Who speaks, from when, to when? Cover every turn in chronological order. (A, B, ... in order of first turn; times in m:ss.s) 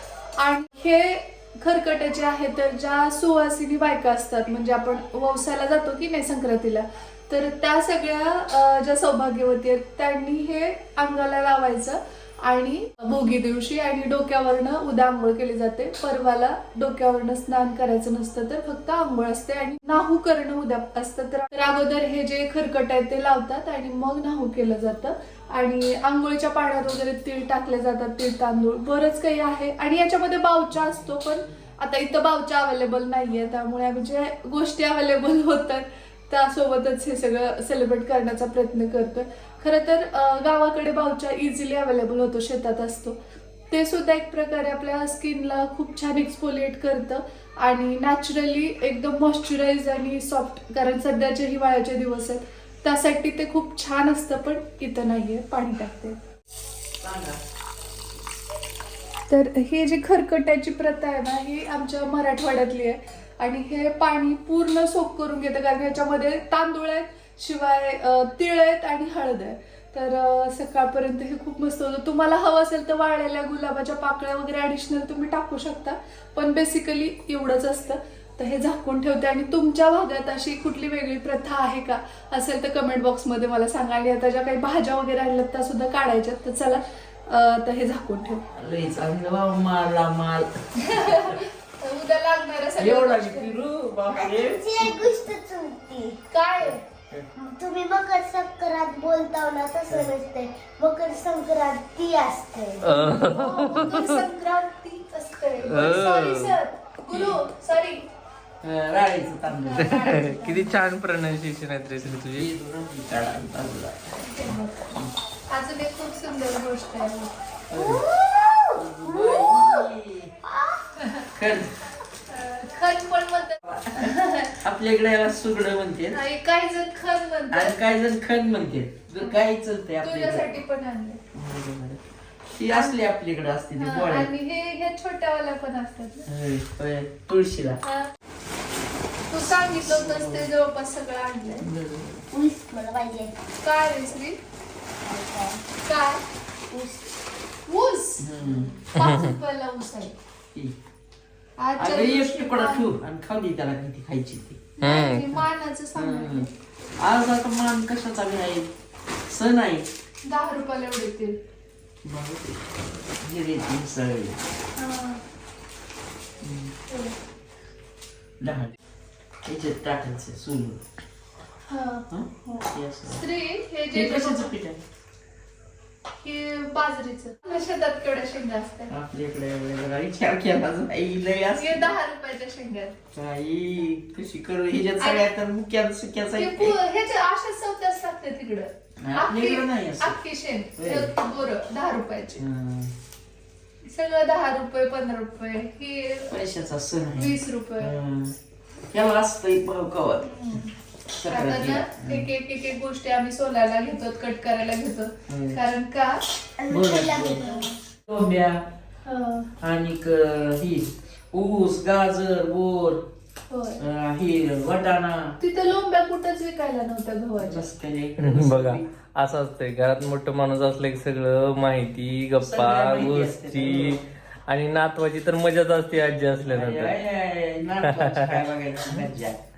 0:00.4-0:43.2 A
0:43.7-0:56.2 A
0:57.0-0:57.4 B
0:59.3-1:28.4 A
1:28.5-1:31.4 B
1:30.8-1:33.6 A
1:32.8-1:35.1 B
1:34.1-1:36.2 C
1:36.3-1:36.8 A
1:36.6-1:37.3 B
1:37.4-1:42.9 C
1:42.8-1:44.2 D
1:43.0-1:48.0 A
1:45.6-1:46.6 D
1:47.1-1:47.4 B
1:48.6-1:50.0 B
1:49.6-1:50.8 A
1:49.8-1:52.5 D
1:52.0-1:55.1 B
1:54.2-1:54.9 A
1:55.5-1:57.3 A
1:57.7-1:58.1 B
1:57.7-1:59.9 C
1:58.7-2:00.3 B
2:00.4-2:00.9 C
2:01.0-2:01.3 A
2:01.3-2:01.7 B
2:02.3-2:04.5 A
2:03.7-2:06.2 B
2:06.1-2:07.8 A
2:07.5-2:10.5 B
2:10.0-2:11.2 A
2:11.3-2:14.3 B
2:13.8-2:16.3 A
2:16.3-2:17.8 B
2:17.8-2:18.1 A
2:19.3-2:21.7 A
2:19.9-2:20.5 B
2:21.6-2:22.2 B
2:22.3-2:23.3 C
2:23.6-2:24.4 A
2:25.0-2:25.6 C
2:25.8-2:26.2 A
2:26.7-2:27.1 C
2:27.7-2:28.3 A
2:28.2-2:28.7 B
2:28.4-2:28.8 C
2:28.9-2:30.1 A
2:29.0-2:29.4 D
2:31.6-2:32.9 A
2:31.8-2:34.6 B
2:34.8-2:36.5 A
2:34.8-2:35.3 D
2:36.0-2:36.5 B
2:37.0-2:38.7 B
2:39.3-2:39.9 B
2:40.3-2:41.4 A
2:42.0-2:44.4 B
2:44.8-2:45.2 A
2:46.4-2:46.7 B
2:46.9-2:47.1 A
2:48.4-2:48.7 B
2:49.4-2:50.8 B
2:51.7-2:54.5 A
2:52.1-2:53.2 B
2:53.9-2:54.8 B
2:56.2-2:58.9 A
2:58.9-3:01.9 B
3:01.6-3:03.0 A
3:03.1-3:06.8 B
3:05.0-3:05.3 A
3:06.4-3:12.4 A
3:09.0-3:10.2 B
3:10.8-3:11.1 B
3:12.4-3:12.9 B
3:13.8-3:16.3 A
3:16.3-3:18.4 B
3:17.2-3:17.9 A
3:18.9-3:20.6 B
3:20.2-3:20.7 A
3:21.2-3:22.3 B
3:21.3-3:26.2 A
3:25.3-3:25.6 B
3:26.6-3:27.7 C
3:26.7-3:28.6 B
3:29.0-3:29.5 A
3:29.6-3:33.0 B
3:33.5-3:33.8 A
3:33.8-3:35.4 B
3:35.4-3:37.6 A
3:37.4-3:38.8 B
3:38.2-3:46.9 D
3:42.4-3:44.0 B
3:46.4-3:49.4 B